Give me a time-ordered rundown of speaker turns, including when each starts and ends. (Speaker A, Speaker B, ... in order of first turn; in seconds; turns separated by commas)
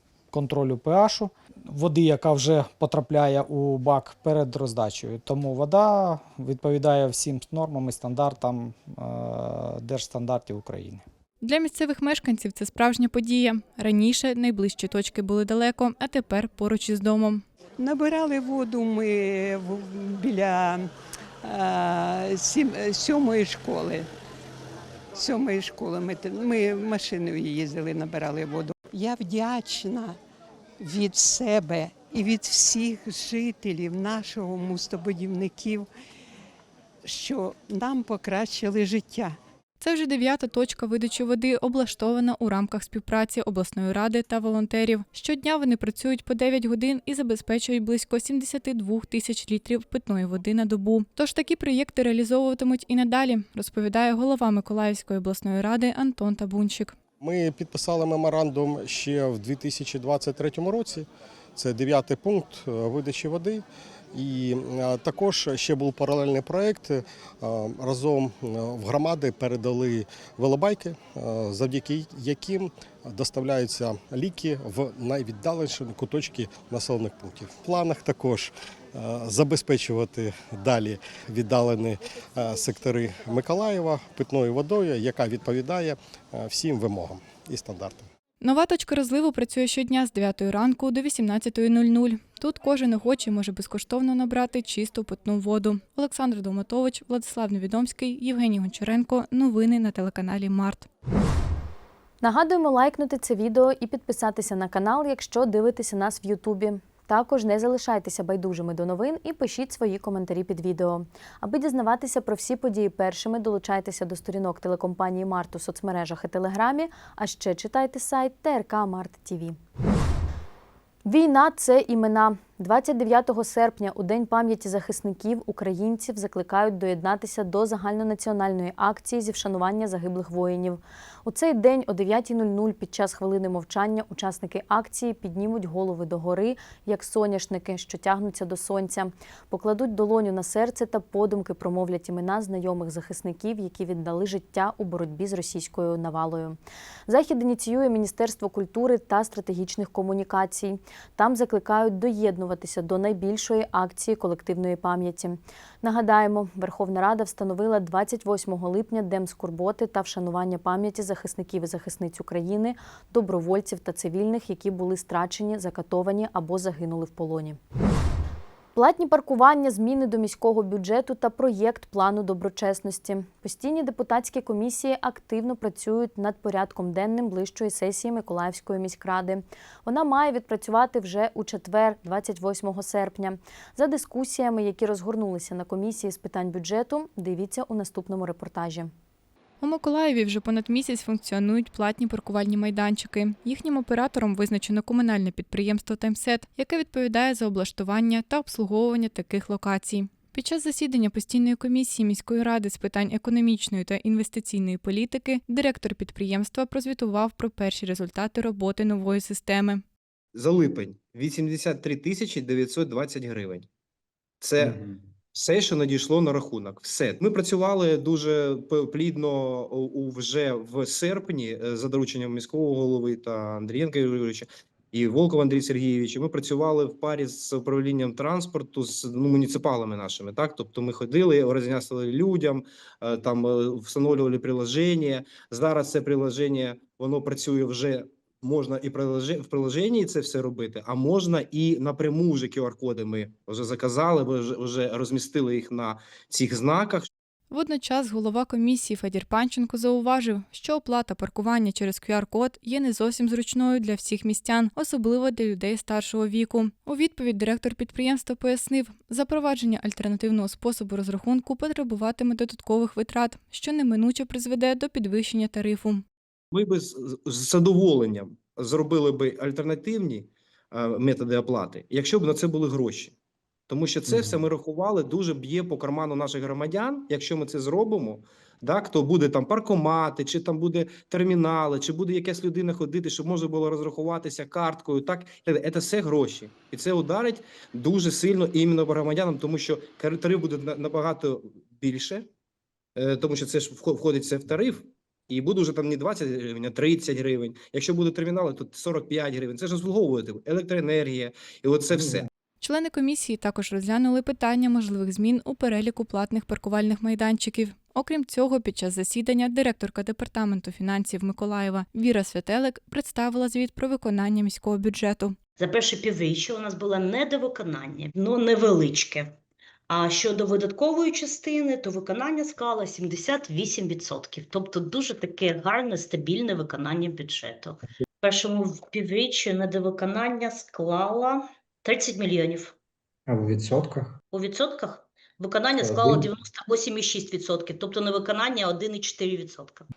Speaker A: 0.3-11.0, Speaker B: 11.4-17.4, Speaker C: 17.8-20.9, Speaker C: 21.4-24.1, Speaker C: 25.1-30.2, Speaker C: 30.8-35.9, Speaker C: 37.0-39.4, Speaker B: 39.8-56.9, Speaker D: 57.2-88.0, Speaker B: 88.4-100.9, Speaker E: 102.2-119.6, Speaker E: 121.0-167.6, Speaker E: 168.8-188.9, Speaker B: 189.6-209.8, Speaker F: 210.3-213.7, Speaker F: 214.4-214.7, Speaker G: 214.6-214.9, Speaker F: 215.3-247.1, Speaker B: 247.5-266.0, Speaker F: 266.5-273.1, Speaker F: 273.7-292.3, Speaker G: 274.1-274.4, Speaker F: 292.9-302.3, Speaker G: 301.9-302.2, Speaker B: 302.6-315.4, Speaker H: 315.6-319.2, Speaker H: 319.9-327.7, Speaker H: 328.3-332.7, Speaker G: 333.3-334.1, Speaker H: 334.3-339.8, Speaker G: 335.7-336.4